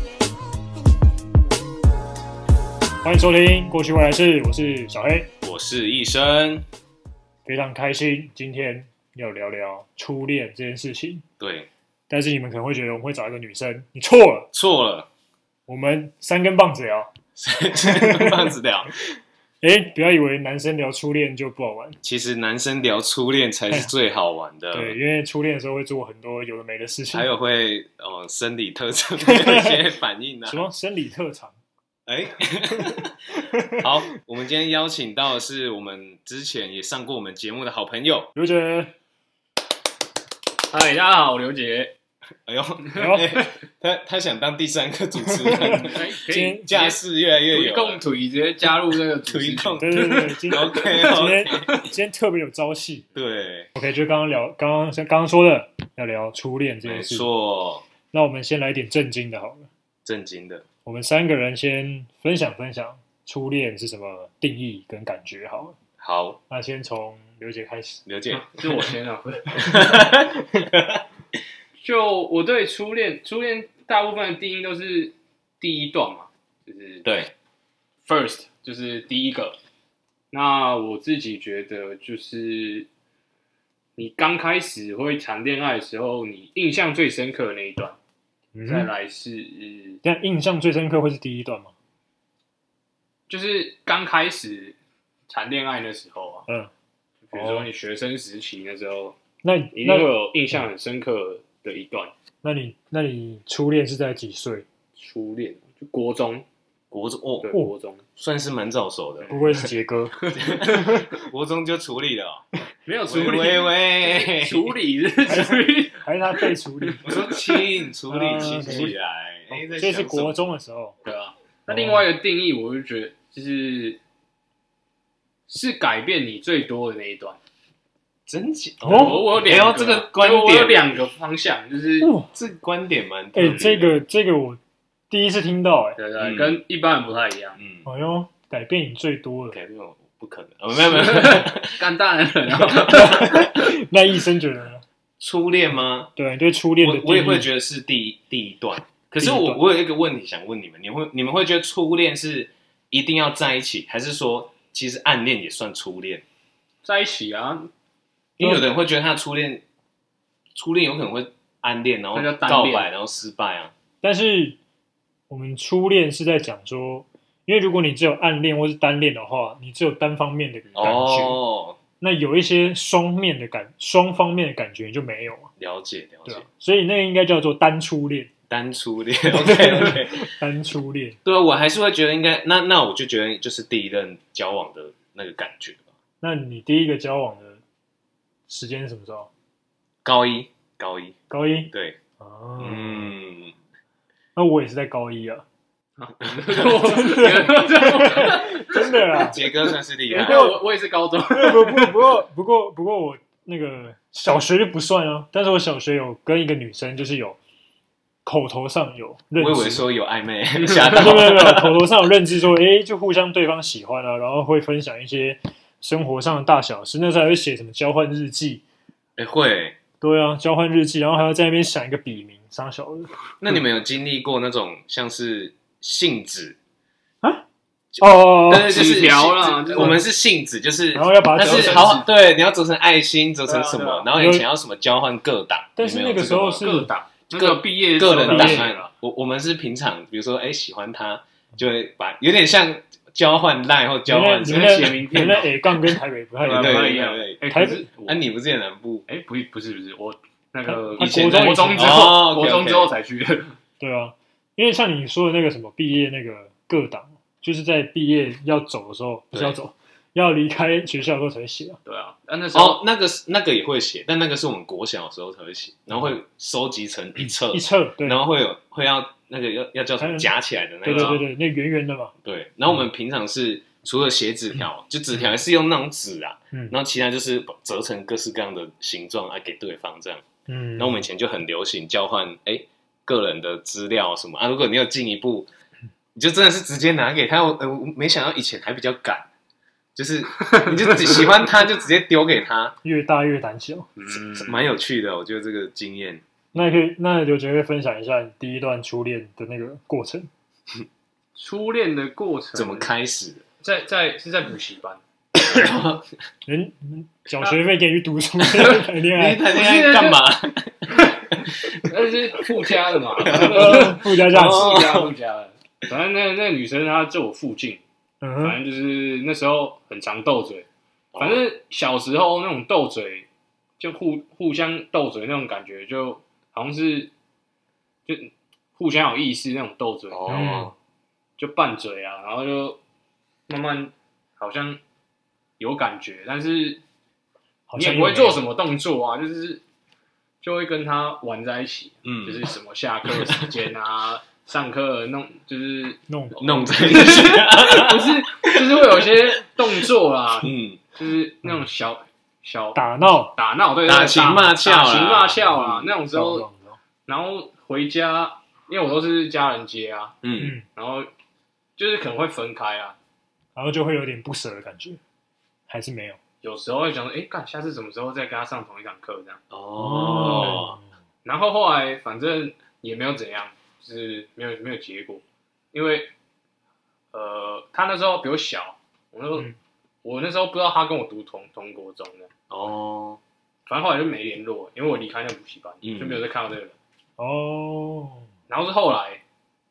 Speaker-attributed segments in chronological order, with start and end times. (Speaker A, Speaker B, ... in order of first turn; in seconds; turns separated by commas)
Speaker A: 3.0-5.3, Speaker B: 5.4-6.6, Speaker A: 7.5-11.2, Speaker B: 11.4-11.7, Speaker A: 12.1-14.5, Speaker B: 14.5-15.1, Speaker A: 15.7-17.1, Speaker B: 17.4-18.9, Speaker A: 17.7-18.5, Speaker A: 19.6-22.0, Speaker B: 22.0-24.9, Speaker A: 24.7-27.3, Speaker B: 27.1-30.6, Speaker A: 29.2-29.8, Speaker A: 30.5-31.6, Speaker B: 32.1-38.3, Speaker A: 33.5-33.9, Speaker A: 38.3-38.9, Speaker C: 40.7-41.9, Speaker B: 42.5-46.0, Speaker A: 43.0-43.3, Speaker A: 45.3-46.7, Speaker C: 45.6-50.9, Speaker B: 46.6-48.0, Speaker B: 49.2-51.7, Speaker A: 49.8-53.0, Speaker B: 53.1-53.7, Speaker A: 53.7-57.3, Speaker B: 56.8-57.8, Speaker A: 58.1-59.7, Speaker B: 60.0-60.6, Speaker A: 60.8-65.8, Speaker B: 66.0-66.4, Speaker A: 66.5-68.0, Speaker B: 68.0-68.8, Speaker C: 68.3-70.0, Speaker B: 69.5-71.0, Speaker C: 71.8-77.0, Speaker B: 77.0-77.3, Speaker C: 78.0-79.6, Speaker C: 80.3-82.9, Speaker C: 84.0-88.0, Speaker A: 88.5-88.9, Speaker C: 88.6-90.0, Speaker A: 90.0-91.7, Speaker C: 93.3-94.8, Speaker C: 95.3-96.5, Speaker C: 97.3-99.2, Speaker A: 97.3-97.7, Speaker A: 99.4-100.1, Speaker C: 99.7-102.1, Speaker A: 102.4-104.7, Speaker C: 105.0-106.4, Speaker B: 106.9-107.5, Speaker C: 107.4-108.0, Speaker B: 108.2-109.7, Speaker A: 109.3-111.0, Speaker B: 110.3-112.5, Speaker C: 112.9-117.0, Speaker B: 113.0-114.7, Speaker A: 115.2-117.1, Speaker B: 117.0-120.4, Speaker A: 118.1-119.0, Speaker C: 118.5-118.9, Speaker A: 119.7-121.0, Speaker C: 121.0-124.0, Speaker A: 121.7-122.0, Speaker C: 125.5-127.4, Speaker B: 128.3-130.8, Speaker A: 128.8-129.2, Speaker C: 128.9-132.1, Speaker A: 132.0-132.3, Speaker B: 132.3-133.9, Speaker A: 133.3-134.6, Speaker A: 135.1-136.0, Speaker C: 136.0-137.6, Speaker B: 136.2-136.6, Speaker B: 137.6-137.9, Speaker A: 137.9-139.6, Speaker B: 139.5-141.8, Speaker C: 140.8-143.7, Speaker B: 142.6-143.4, Speaker A: 142.8-144.8, Speaker B: 145.2-146.1, Speaker A: 146.2-147.5, Speaker B: 146.8-156.2, Speaker A: 149.2-149.6, Speaker C: 156.8-157.7, Speaker B: 158.4-159.6, Speaker A: 158.4-158.7, Speaker B: 160.6-163.7, Speaker C: 162.1-162.9, Speaker A: 164.0-164.6, Speaker A: 165.3-171.4, Speaker B: 170.8-171.8, Speaker A: 172.0-175.5, Speaker B: 175.6-176.5, Speaker A: 176.2-178.3, Speaker B: 178.5-180.3, Speaker A: 179.3-181.2, Speaker B: 181.2-185.9, Speaker A: 186.2-187.6, Speaker A: 188.5-189.3, Speaker B: 190.0-191.2, Speaker A: 191.3-193.1, Speaker B: 191.7-192.0, Speaker B: 192.6-193.5, Speaker A: 194.3-195.4, Speaker C: 196.0-199.3, Speaker B: 196.2-197.0, Speaker A: 196.6-199.4, Speaker B: 199.2-200.4, Speaker C: 200.1-202.0, Speaker A: 200.2-200.6, Speaker A: 201.3-207.4, Speaker A: 208.2-209.8, Speaker B: 209.4-211.8, Speaker A: 210.8-218.6, Speaker B: 219.2-219.8, Speaker A: 220.0-223.6, Speaker B: 223.4-226.6, Speaker B: 227.9-236.6, Speaker A: 228.0-229.0, Speaker C: 228.5-230.0, Speaker A: 229.8-230.0, Speaker A: 230.9-232.1, Speaker C: 231.5-231.9, Speaker C: 233.5-234.1, Speaker A: 234.1-234.4, Speaker A: 235.8-236.9, Speaker C: 236.6-238.9, Speaker B: 237.3-245.0, Speaker A: 238.2-238.7, Speaker A: 244.1-246.9, Speaker C: 244.4-248.2, Speaker B: 246.4-247.4, Speaker A: 247.5-247.8, Speaker B: 248.0-249.1, Speaker C: 249.1-253.6, Speaker A: 250.7-252.1, Speaker B: 251.0-252.9, Speaker A: 253.8-261.8, Speaker C: 261.9-262.8, Speaker B: 262.5-271.2, Speaker A: 267.5-268.2, Speaker A: 270.0-270.3, Speaker A: 270.8-272.1, Speaker C: 270.9-271.2, Speaker B: 272.2-280.2, Speaker A: 280.5-281.0, Speaker B: 280.8-285.5, Speaker B: 286.1-289.3, Speaker B: 289.9-292.8, Speaker A: 292.8-293.9, Speaker C: 294.0-294.7, Speaker B: 294.1-296.8, Speaker A: 296.5-300.3, Speaker C: 301.4-302.9, Speaker B: 302.6-303.4, Speaker C: 303.6-305.0, Speaker B: 305.4-306.1, Speaker A: 306.5-309.5, Speaker B: 308.6-311.9, Speaker C: 309.5-310.2, Speaker C: 311.8-317.8, Speaker B: 313.2-315.1, Speaker A: 313.3-314.8, Speaker A: 318.2-318.6, Speaker C: 318.4-320.7, Speaker B: 321.1-321.4, Speaker C: 321.2-323.3, Speaker C: 323.8-327.1, Speaker C: 328.1-330.5, Speaker B: 330.1-330.7, Speaker A: 330.3-330.7, Speaker C: 331.4-332.8, Speaker C: 333.5-334.8, Speaker C: 335.6-336.8, Speaker A: 337.7-338.4, Speaker C: 337.8-339.6, Speaker C: 340.4-356.4, Speaker B: 342.0-342.5, Speaker A: 346.1-347.0, Speaker B: 346.4-349.4, Speaker B: 350.4-350.8, Speaker A: 352.8-353.4, Speaker B: 353.9-355.8, Speaker A: 355.4-356.8, Speaker C: 357.1-360.2, Speaker B: 360.2-360.6, Speaker A: 360.4-360.6, Speaker C: 360.8-361.1, Speaker C: 361.8-363.0, Speaker A: 363.6-365.0, Speaker A: 365.7-366.2, Speaker C: 366.4-369.4, Speaker B: 369.5-370.8, Speaker A: 369.8-370.9, Speaker C: 371.2-376.1, Speaker C: 377.1-379.5, Speaker C: 380.0-382.3, Speaker B: 382.5-383.2, Speaker C: 383.7-386.8, Speaker B: 385.8-386.2, Speaker A: 387.2-388.3, Speaker C: 388.5-389.2